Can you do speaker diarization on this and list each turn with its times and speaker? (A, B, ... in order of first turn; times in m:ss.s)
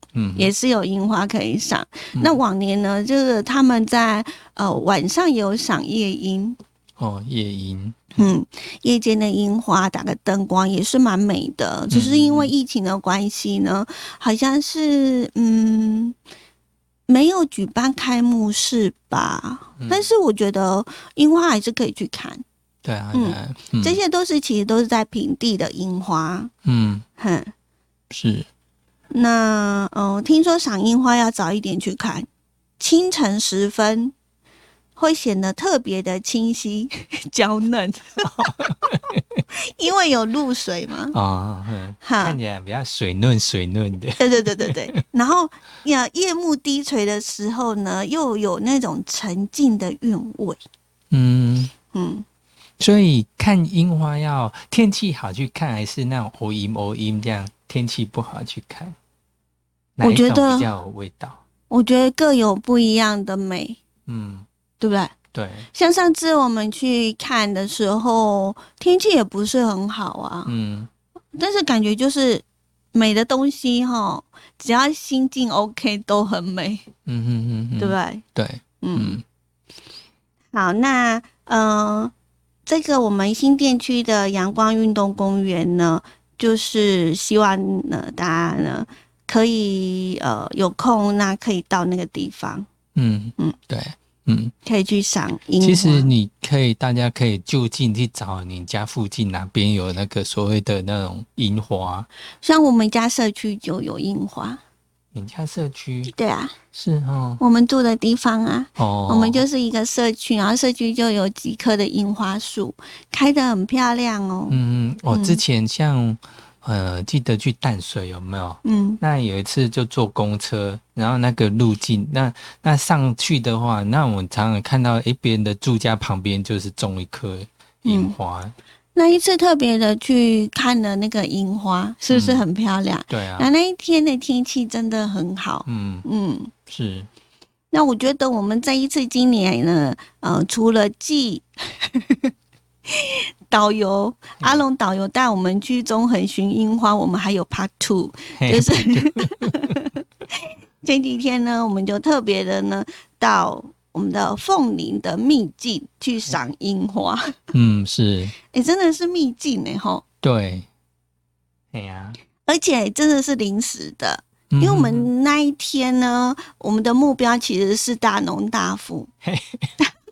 0:00.1-0:00.5 A
0:00.4-0:06.6 B
0:07.0-0:08.3 A
0:08.2-0:16.2 B
0:11.9-0:12.5 A
0:17.1-0:22.4 B
0:19.8-0:20.1 A
0:22.8-0:24.0 A
0:23.1-0:26.5 B
0:26.6-0:27.0 A
0:27.2-0:27.5 B
0:28.1-0:28.5 A
0:29.1-0:32.3 B
0:32.8-0:34.1 B
0:35.0-0:38.9 B
0:38.2-0:39.4 A
0:39.5-0:41.2 B
0:41.1-0:45.0 A
0:42.0-0:42.4 B
0:44.2-0:50.6 B
0:51.1-0:51.7 A
0:51.9-0:52.2 B
0:52.8-0:59.0 A
1:00.0-1:01.4 A
1:00.0-1:00.7 B
1:01.7-1:03.8 B
1:04.1-1:04.4 A
1:04.8-1:05.1 B
1:05.3-1:05.7 A
1:05.7-1:10.5 B
1:10.4-1:10.9 A
1:11.4-1:16.8 B
1:17.0-1:19.2 A
1:17.8-1:18.2 B
1:18.8-1:19.2 B
1:20.5-1:22.1 B
1:22.6-1:32.6 B
1:32.9-1:34.5 A
1:34.6-1:36.1 B
1:35.6-1:42.1 A
1:42.4-1:44.6 B
1:45.1-1:46.1 A
1:46.1-1:46.6 B
1:46.7-1:47.4 A
1:47.4-1:54.6 B
1:48.8-1:49.4 A
1:54.5-2:08.5 A
1:55.1-1:55.4 B
1:58.6-1:59.0 B
2:07.8-2:08.1 B
2:08.9-2:16.5 B
2:12.1-2:12.4 A
2:13.1-2:13.5 A
2:15.6-2:16.0 A
2:16.7-2:17.1 A
2:17.7-2:22.3 B
2:22.9-2:37.3 B
2:28.4-2:29.7 A
2:37.5-2:38.3 A
2:38.5-2:40.0 B
2:40.2-2:40.7 A
2:41.7-2:42.2 A
2:42.4-2:49.1 B
2:44.5-2:45.1 A
2:49.2-2:49.7 A